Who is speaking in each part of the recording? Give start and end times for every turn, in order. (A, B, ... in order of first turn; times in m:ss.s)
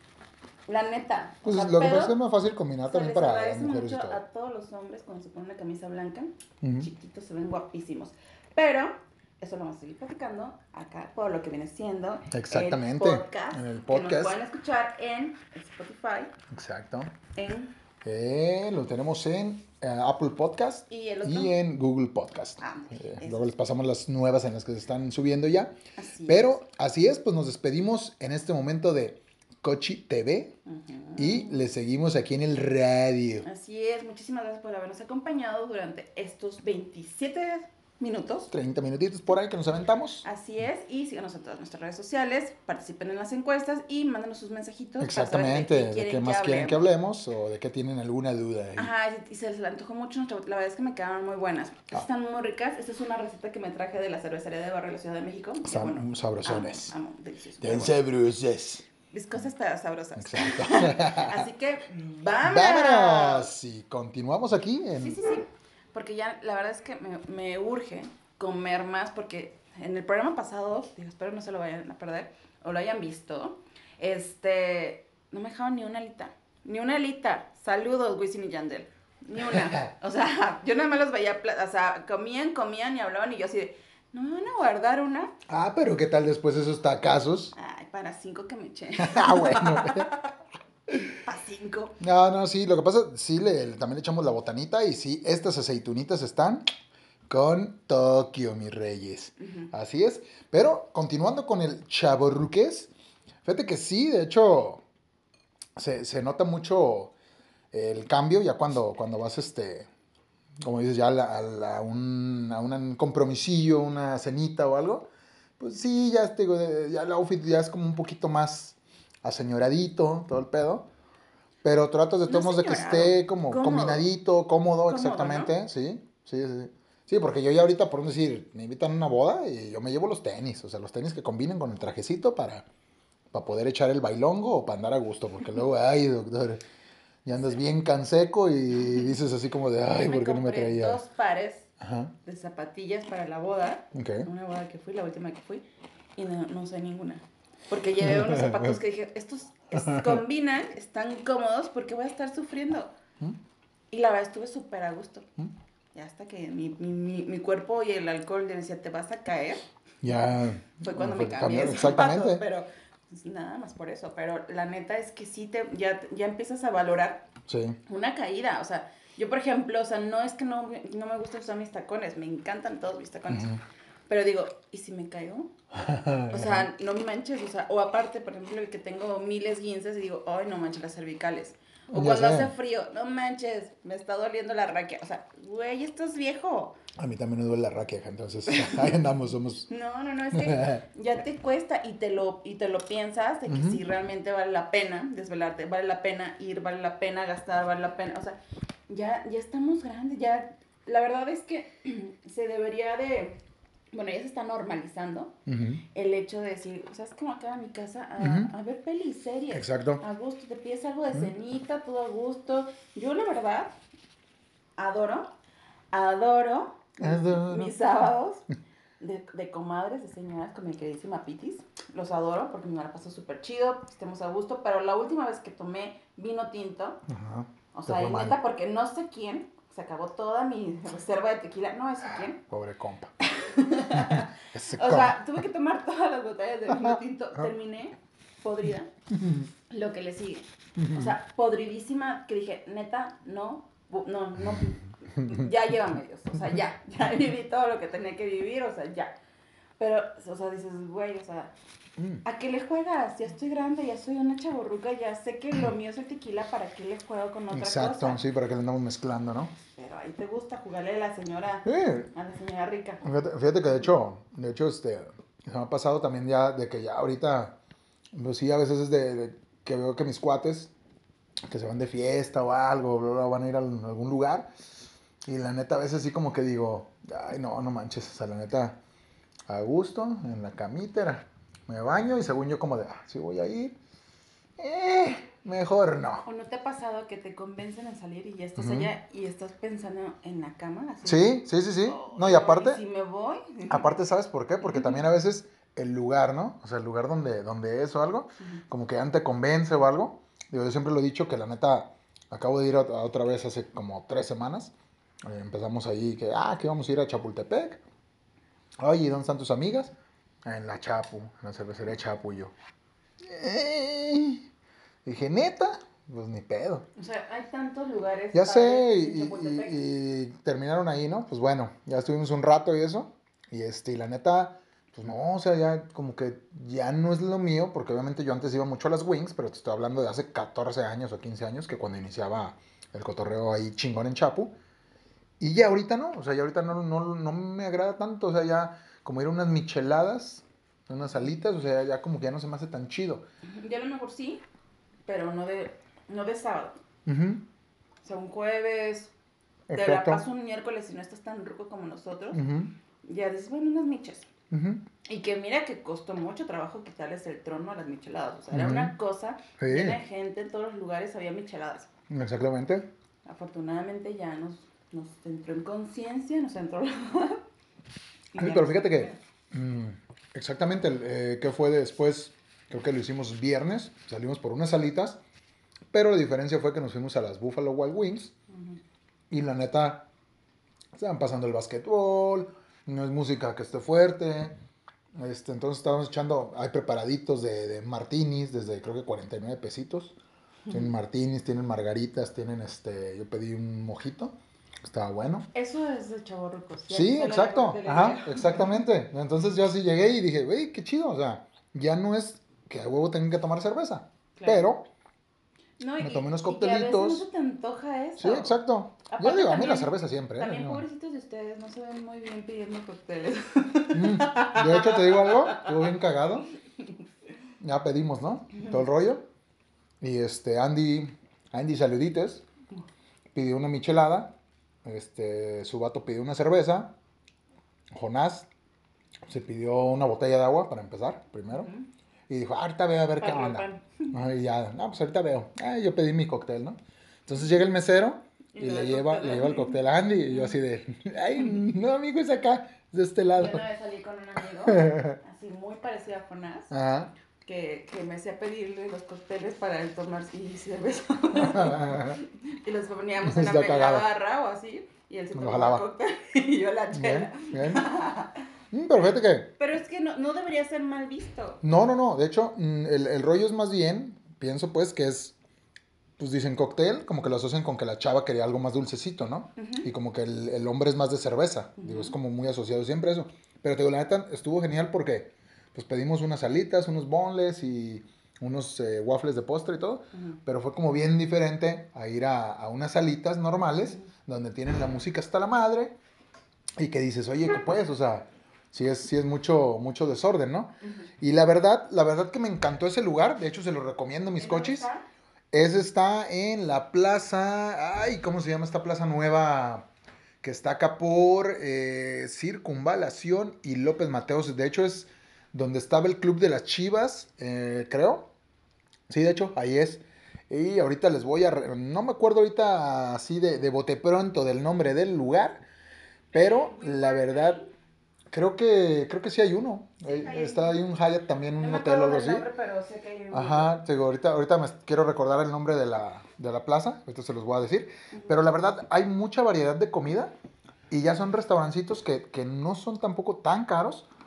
0:00.7-0:02.2 A
0:01.4-0:04.2 B
0:02.9-0:16.3 A
0:06.6-0:06.9 B
0:12.3-0:14.4 B
0:16.5-0:17.1 B
0:17.4-0:17.7 A
0:18.0-0:25.8 B
0:20.9-0:21.6 A
0:22.6-0:23.5 A
0:26.0-0:26.6 A
0:26.3-0:30.5 B
0:30.7-0:31.6 A
0:31.2-0:33.5 B
0:33.4-0:38.5 A
0:38.5-0:40.2 B
0:40.2-0:46.8 A
0:45.0-0:48.9 B
0:48.8-0:58.0 A
0:55.6-0:56.9 B
0:57.6-0:58.9 B
0:59.1-1:03.5 A
1:00.2-1:01.5 B
1:02.4-1:05.2 B
1:05.0-1:25.3 A
1:19.4-1:19.9 B
1:25.5-1:27.6 B
1:27.6-1:30.3 A
1:29.0-1:30.1 B
1:31.0-1:32.0 A
1:32.0-1:36.6 B
1:37.3-1:42.9 B
1:39.4-1:39.7 A
1:43.4-1:44.8 B
1:45.8-1:47.1 B
1:47.7-1:49.9 B
1:50.6-1:55.1 B
1:55.6-2:00.9 B
2:01.6-2:12.7 B
2:02.2-2:04.1 A
2:04.9-2:05.5 A
2:13.3-2:16.6 B
2:17.2-2:21.0 B
2:17.3-2:17.6 A
2:18.8-2:19.1 A
2:20.0-2:21.7 A
2:21.8-2:22.1 B
2:22.2-2:25.6 A
2:23.9-2:24.3 B
2:26.2-2:32.9 A
2:28.0-2:28.8 B
2:29.7-2:30.2 B
2:33.9-2:35.3 A
2:36.0-2:39.6 A
2:40.0-2:42.4 B
2:40.8-2:47.3 A
2:47.5-2:47.8 B
2:47.9-2:53.5 A
2:53.3-2:53.6 B
2:54.1-2:55.5 A
2:55.7-2:56.7 B
2:56.3-3:06.7 A
3:01.9-3:02.5 B
3:07.0-3:09.7 B
3:08.5-3:08.9 A
3:09.7-3:18.4 A
3:10.3-3:10.8 B
3:13.5-3:13.8 B
3:18.9-3:23.4 A
3:23.9-3:25.4 A
3:25.5-3:25.8 B
3:25.9-3:33.7 A
3:28.2-3:28.5 B
3:29.5-3:30.0 B
3:34.8-3:35.3 A
3:35.9-3:38.5 A
3:37.0-3:37.7 B
3:39.0-3:47.0 A
3:47.1-3:48.4 B
3:47.7-3:52.4 A
3:52.4-3:53.1 B
3:53.2-3:58.9 A
3:53.9-3:55.4 B
3:56.7-3:57.5 B
3:59.1-3:59.5 B
3:59.7-4:09.1 A
4:00.8-4:01.2 B
4:04.4-4:05.5 B
4:09.8-4:11.5 A
4:12.0-4:12.2 B
4:12.2-4:18.2 A
4:17.5-4:19.5 B
4:19.6-4:23.0 A
4:21.7-4:22.1 B
4:23.0-4:27.6 B
4:28.1-4:30.7 B
4:31.5-4:34.5 B
4:35.3-4:38.8 B
4:39.5-4:43.8 B
4:44.6-4:46.2 B
4:46.2-4:54.0 A
4:48.6-4:48.9 B
4:51.0-4:52.8 B
4:53.7-5:04.7 B
4:54.6-4:55.0 A
5:05.3-5:07.8 B
5:08.8-5:09.9 B
5:10.5-5:12.5 B
5:13.2-5:14.5 B
5:15.0-5:16.8 B
5:17.0-5:19.8 A
5:18.3-5:34.5 B
5:35.4-5:43.2 B
5:43.5-5:44.4 A
5:45.1-5:46.8 A
5:47.1-5:47.4 B
5:48.0-5:49.1 A
5:49.7-5:50.2 B
5:49.7-5:52.4 A
5:52.3-5:52.7 B
5:53.0-5:54.3 A
5:54.5-5:54.8 B
5:55.1-6:01.9 A
5:58.5-5:59.0 B
5:59.6-6:00.0 B
6:02.1-6:02.9 B
6:03.2-6:07.4 A
6:08.3-6:09.2 A
6:08.4-6:15.2 B
6:15.9-6:18.3 B
6:18.5-6:18.8 A
6:19.3-6:20.1 B
6:20.9-6:24.6 B
6:25.2-6:30.2 B
6:30.7-6:35.5 B
6:35.5-6:38.7 A
6:36.9-6:44.8 B
6:44.4-6:44.7 A
6:45.8-6:48.6 A
6:46.0-6:47.3 B
6:48.2-6:50.8 B
6:49.1-6:55.8 A
6:53.9-6:56.5 B
6:57.6-6:59.2 B
7:00.0-7:02.4 B
7:03.3-7:06.9 B
7:07.9-7:08.5 B
7:09.3-7:11.7 B
7:11.5-7:11.9 A
7:12.3-7:23.6 B
7:13.2-7:14.2 A
7:18.5-7:20.6 A
7:23.4-7:26.7 A
7:24.7-7:25.2 B
7:26.7-7:27.1 B
7:27.4-7:38.4 A
7:31.4-7:32.2 B
7:33.2-7:34.1 B
7:35.4-7:35.8 B
7:36.9-7:37.8 B
7:38.7-7:39.5 B
7:39.6-7:41.6 A
7:41.6-7:45.4 B
7:46.2-8:06.0 B
7:49.6-7:49.9 A
7:51.8-7:52.2 A
8:00.1-8:00.4 A
8:06.8-8:14.9 B
8:14.4-8:15.0 A
8:15.5-8:19.9 B
8:20.4-8:28.3 B
8:29.1-8:35.6 B
8:36.3-8:37.6 B
8:36.3-8:37.7 A
8:38.3-8:42.5 B
8:40.0-8:40.8 A
8:41.6-8:43.7 A
8:43.3-8:50.3 B
8:50.9-8:54.1 B